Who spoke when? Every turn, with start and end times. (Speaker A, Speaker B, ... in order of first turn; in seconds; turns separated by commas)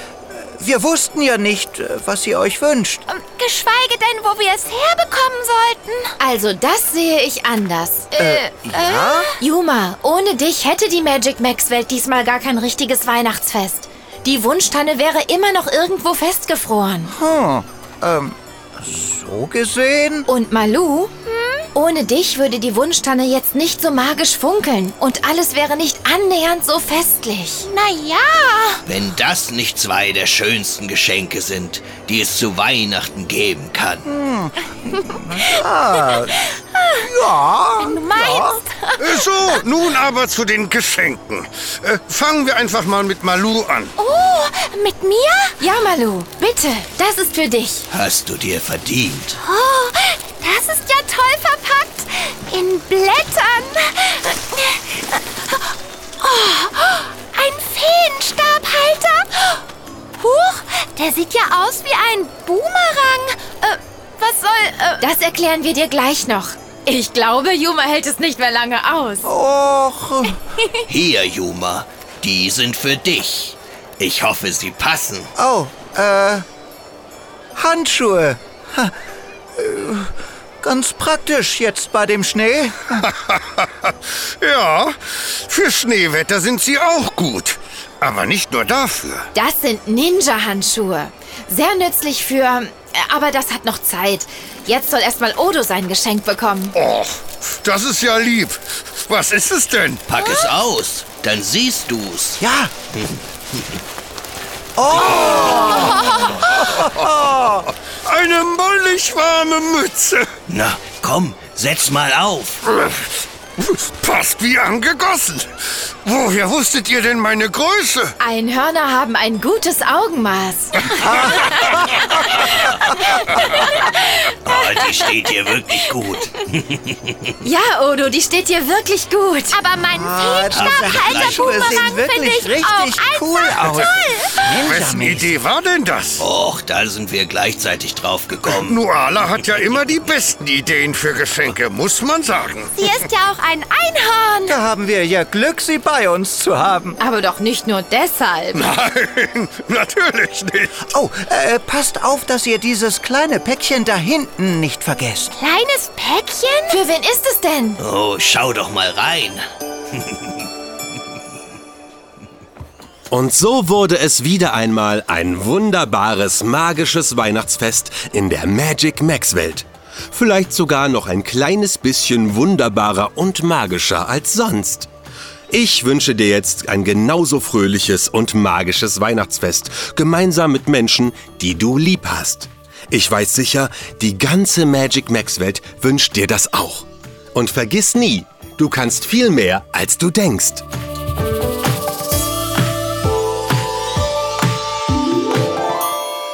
Speaker A: 0.3-3.0, Speaker B: 3.3-5.5, Speaker C: 6.2-8.4, Speaker A: 8.2-9.3, Speaker C: 9.1-17.1, Speaker A: 17.1-20.3, Speaker C: 20.3-27.7, Speaker B: 28.0-28.4, Speaker D: 28.9-34.1, Speaker A: 34.0-38.6, Speaker E: 39.0-43.9, Speaker B: 44.0-45.3, Speaker C: 45.6-47.9, Speaker D: 47.9-49.4, Speaker C: 49.5-49.9, Speaker B: 61.5-61.9, Speaker C: 65.0-69.2, Speaker A: 69.2-70.4, Speaker D: 70.9-75.3, Speaker A: 75.4-76.4, Speaker A: 77.5-78.9, Speaker A: 79.6-83.0, Speaker E: 83.0-89.3, Speaker C: 89.3-96.8, Speaker E: 96.7-100.0, Speaker D: 100.1-102.4, Speaker A: 102.4-102.7, Speaker A: 104.8-107.7, Speaker E: 104.9-107.2, Speaker E: 108.0-110.3, Speaker D: 110.5-112.6, Speaker E: 112.7-118.2, Speaker C: 118.2-120.9, Speaker A: 121.0-122.0, Speaker D: 122.1-122.7, Speaker C: 123.6-124.1, Speaker D: 124.4-127.3, Speaker C: 127.4-129.6, Speaker A: 129.9-135.4, Speaker B: 130.0-133.9, Speaker D: 130.5-131.5, Speaker E: 134.7-136.2, Speaker D: 136.2-138.8, Speaker E: 138.5-142.9, Speaker A: 144.5-147.0, Speaker C: 147.0-148.7, Speaker E: 148.5-150.8, Speaker A: 150.9-155.4, Speaker B: 155.5-156.3, Speaker C: 156.7-157.8, Speaker D: 157.8-159.4, Speaker D: 159.9-160.3, Speaker F: 163.1-174.9, Speaker F: 175.5-190.6